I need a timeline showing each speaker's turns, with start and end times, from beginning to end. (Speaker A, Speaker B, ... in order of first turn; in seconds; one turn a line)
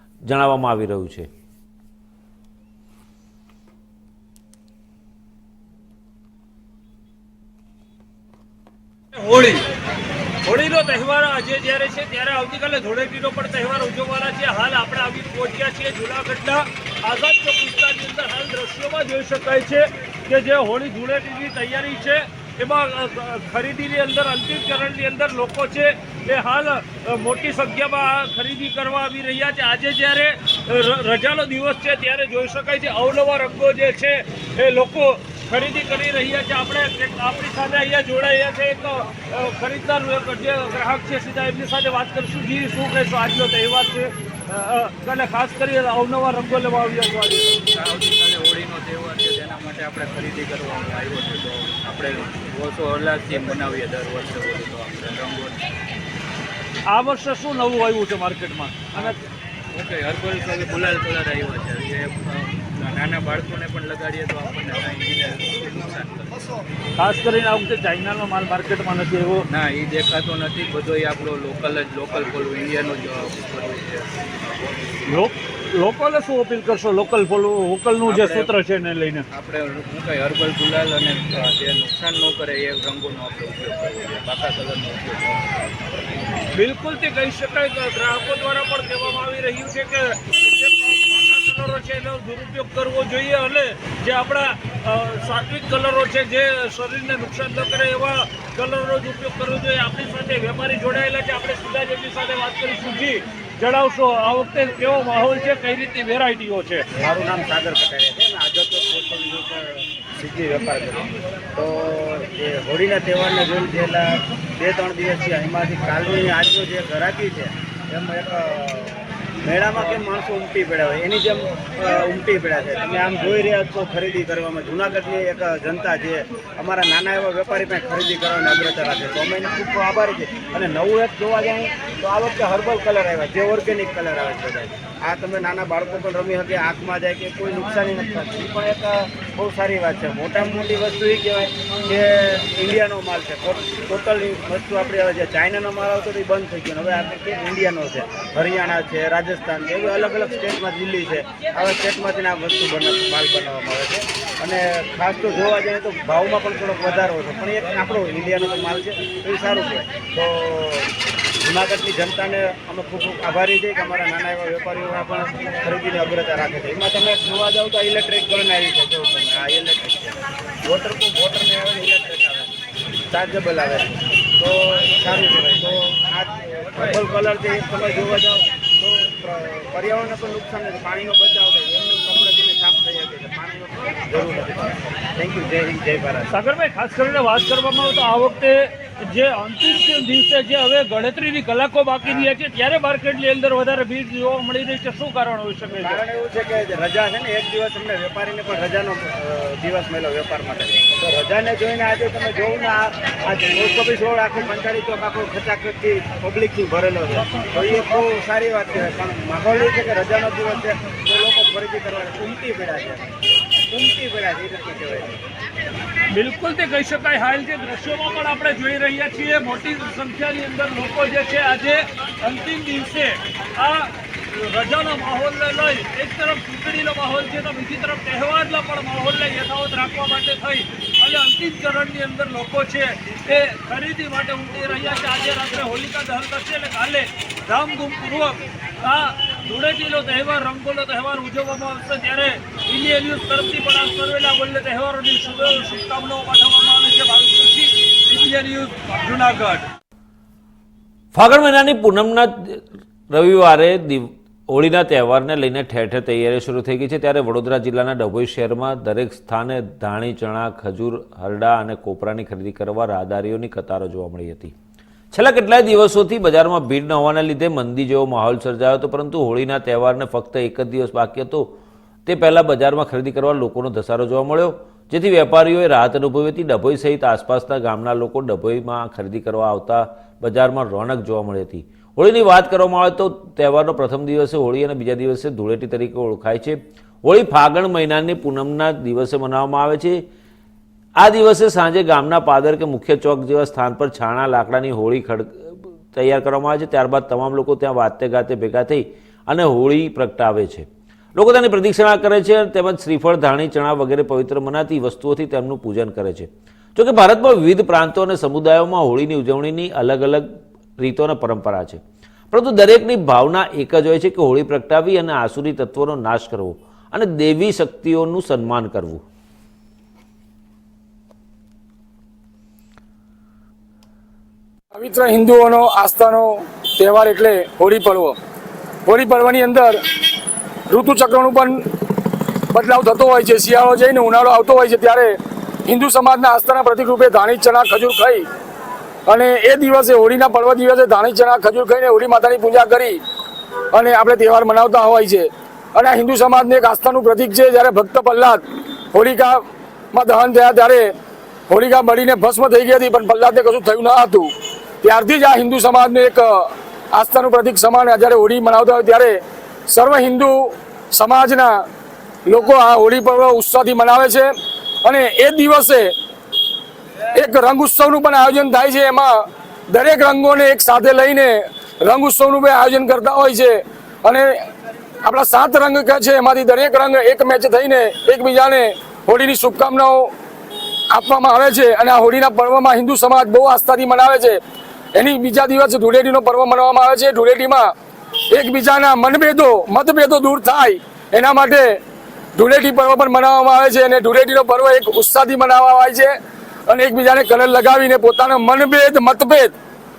Speaker A: 0.2-1.3
Speaker B: 9.1-9.7
Speaker B: 10.4-47.5
Speaker C: 47.7-55.6
Speaker B: 56.9-59.1
Speaker C: 59.7-66.5
Speaker B: 67.0-69.5
Speaker C: 69.5-74.3
Speaker B: 75.1-79.2
Speaker C: 78.0-78.5
Speaker C: 79.3-85.5
Speaker B: 86.5-106.8
Speaker D: 107.0-160.9
Speaker D: 161.4-172.5
Speaker D: 173.1-186.3
Speaker B: 186.3-196.0
Speaker D: 192.0-192.3
Speaker D: 195.8-213.1
Speaker D: 213.7-215.2
Speaker B: 216.1-249.7
Speaker A: 251.1-264.5
Speaker A: 265.1-271.5
Speaker A: 272.1-290.0
Speaker A: 291.0-310.3
Speaker A: 310.8-319.0
Speaker E: 324.7-328.1
Speaker E: 328.9-329.7
Speaker E: 330.7-331.6
Speaker E: 332.5-335.1
Speaker E: 335.7-338.2
Speaker E: 339.1-342.9
Speaker E: 343.7-348.4
Speaker E: 348.9-349.4
Speaker E: 349.9-350.9
Speaker E: 351.5-354.2
Speaker E: 354.8-356.3
Speaker E: 356.9-359.2
Speaker E: 359.7-360.4
Speaker E: 360.9-361.5
Speaker E: 362.2-364.3
Speaker E: 364.8-365.9
Speaker E: 367.1-369.1
Speaker E: 369.7-374.3
Speaker E: 375.0-380.1
Speaker E: 380.9-384.4
Speaker E: 384.9-387.7
Speaker E: 388.3-391.7
Speaker E: 392.4-396.1
Speaker E: 396.7-399.5